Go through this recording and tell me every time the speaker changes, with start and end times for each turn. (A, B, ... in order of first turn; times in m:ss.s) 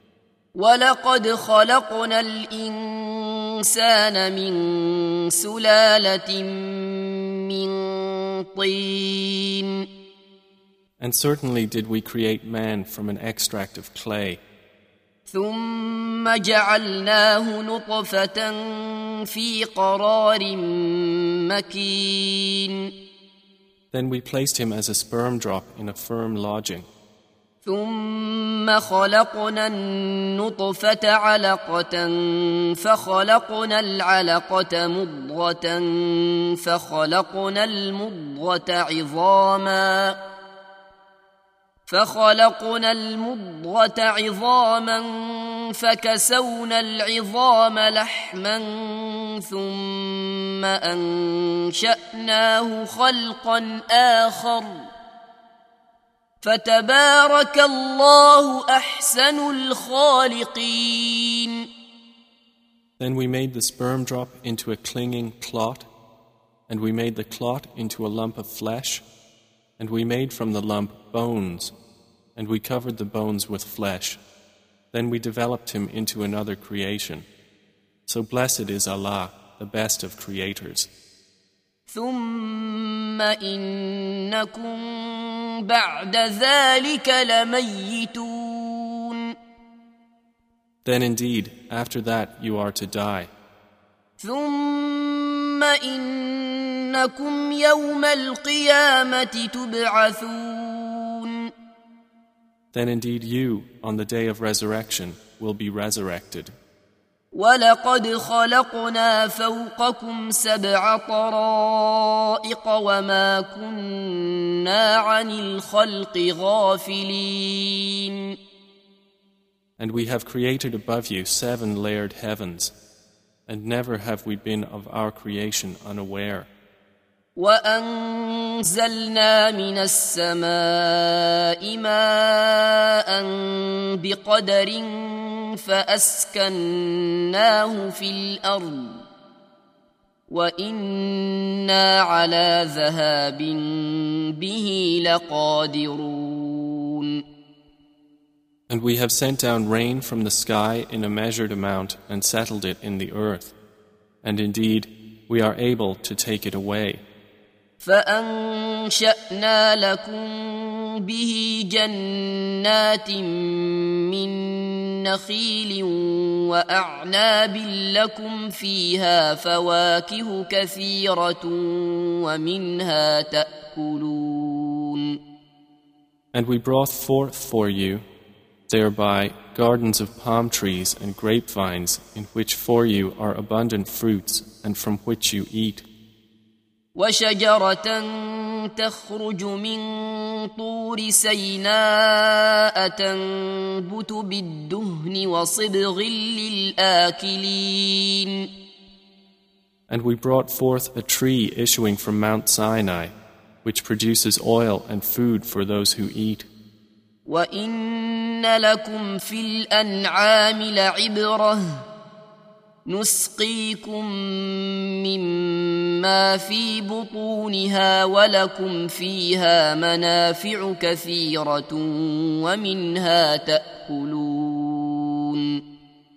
0:00.5-0:09.8 A
0:11.0-0:14.4 B
0:15.3-0:22.9 A
0:23.9-0:26.9 B
0:27.6-0:40.2 A
0:41.9-0:54.9 A
0:56.4-1:01.6 A
1:03.0-1:05.9 B
1:06.7-1:09.0 B
1:09.8-1:11.7 B
1:12.4-1:14.2 B
1:14.9-1:17.2 B
1:18.1-1:20.9 B
1:21.9-1:29.3 A
1:30.8-1:33.3 B
1:34.2-1:41.5 A
1:42.7-1:46.5 B
1:47.3-1:58.3 A
1:59.8-2:02.7 B
2:03.5-2:06.5 B
2:07.4-2:19.0 A
2:20.3-2:27.2 A
2:28.7-2:33.5 B
2:34.2-2:37.0 B
2:37.8-2:55.2 A
2:56.3-2:58.0 B
2:58.7-3:05.8 B
3:07.0-3:18.5 A
3:19.9-3:26.5 B
3:27.2-3:31.8 A
3:32.8-3:45.6 A